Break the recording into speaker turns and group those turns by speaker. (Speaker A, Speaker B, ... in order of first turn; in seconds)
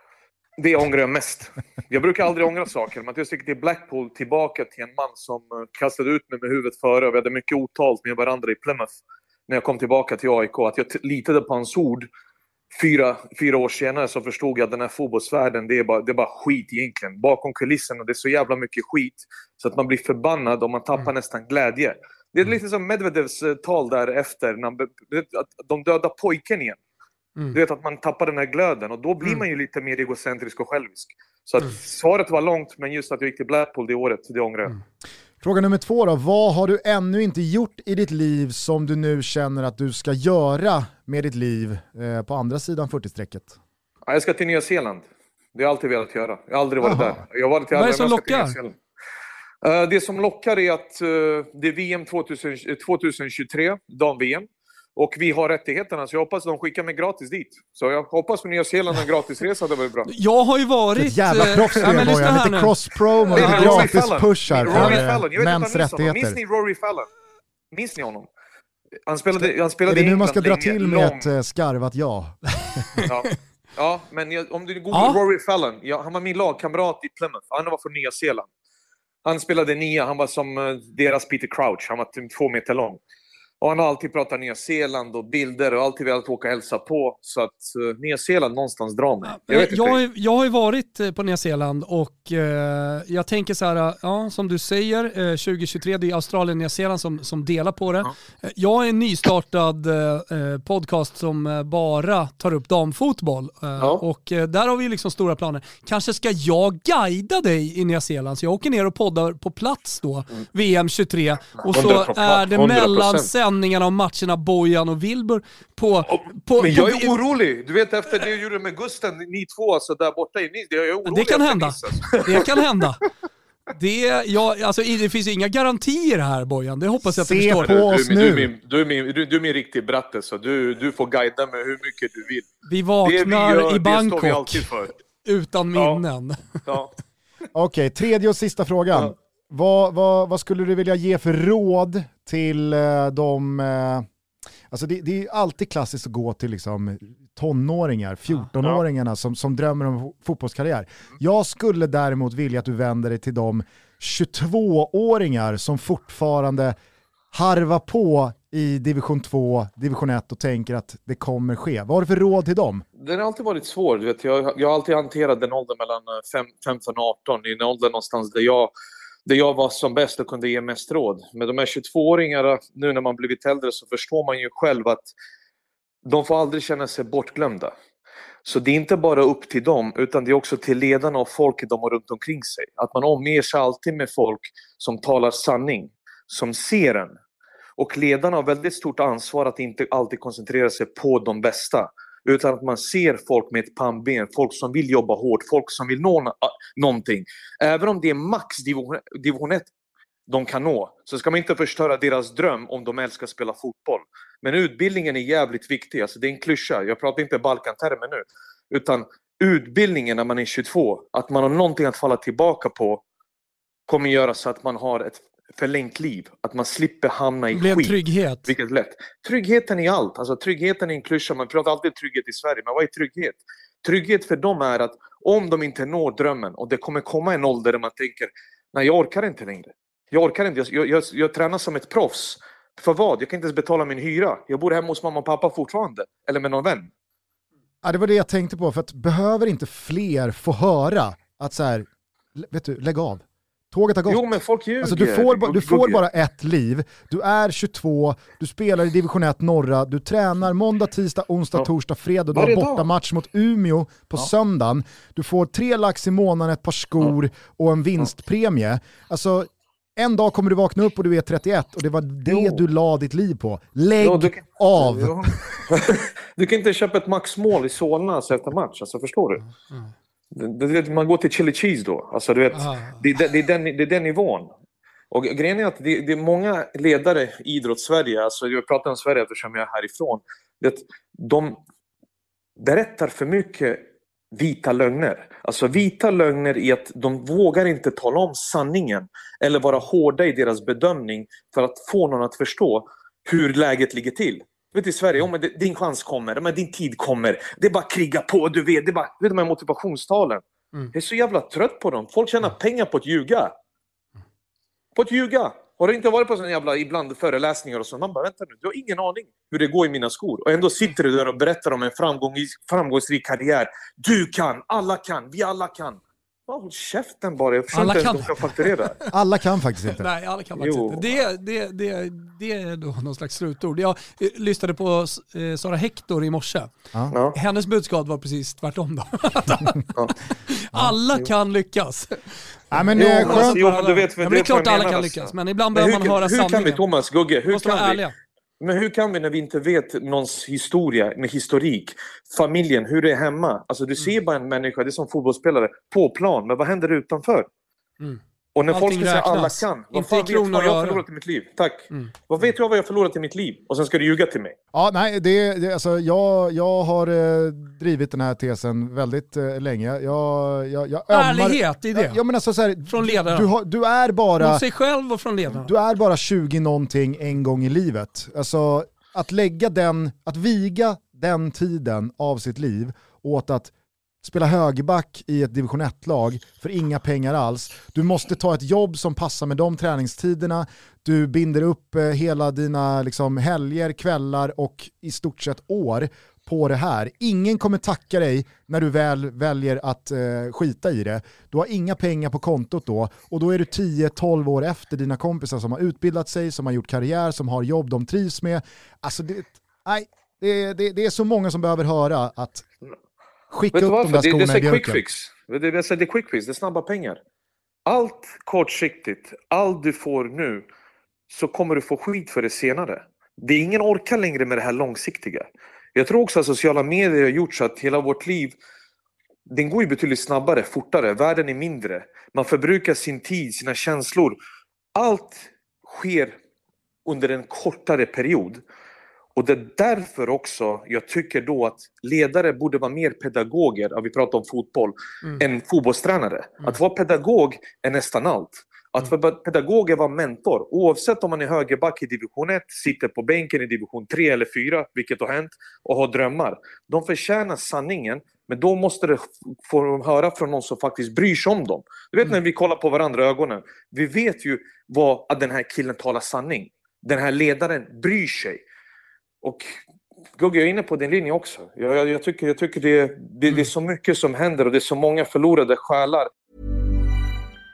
Speaker A: 0.6-8.9, 9.5-12.1, 12.7-26.8, 27.5-34.7, 44.0-48.8, 49.6-60.1, 63.3-67.1, 67.7-68.3, 69.1-71.3, 73.0-78.5, 79.2-83.0, 83.6-90.0, 103.8-104.0, 111.7-113.3, 116.6-122.5, 127.6-132.5, 133.0-134.9, 135.8-136.0, 136.6-136.9, 163.0-168.7, 169.2-175.1, 176.0-177.7, 178.4-187.2, 187.8-199.7, 200.3-213.0, 213.9-236.9, 244.1-246.0, 252.3-252.8, 262.3-262.6, 264.0-269.4, 270.3-274.5, 275.1-281.6, 282.6-300.4, 300.9-303.5, 304.9-319.0, 320.6-321.2, 327.1-327.4, 332.9-338.0, 338.6-347.5, 348.5-354.5, 403.7-407.2, 407.9-410.7, 411.3-418.6, 419.5-424.4, 424.9-426.4, 427.1-428.6, 429.4-458.6, 460.4-466.3
Speaker B: 35.4-43.6, 46.8-47.2, 61.0-66.4, 69.4-72.8, 127.0-128.5, 137.5-144.1, 144.7-156.7, 157.3-162.8, 237.8-265.5, 319.1-320.1, 332.7-333.6, 354.7-364.6, 365.5-373.7, 374.2-402.6, 403.5-405.0
Speaker C: 47.7-48.5, 60.1-62.7, 63.3-63.9, 64.7-65.0, 73.0-73.3, 74.9-75.2, 89.2-117.2, 121.0-123.0, 123.7-127.8, 132.6-134.7, 135.2-136.6, 217.5-218.5, 272.5-273.0, 317.7-319.1, 319.9-326.7, 327.3-336.8, 337.5-338.1, 348.0-351.0, 361.1-362.2, 362.9-363.5, 364.4-365.7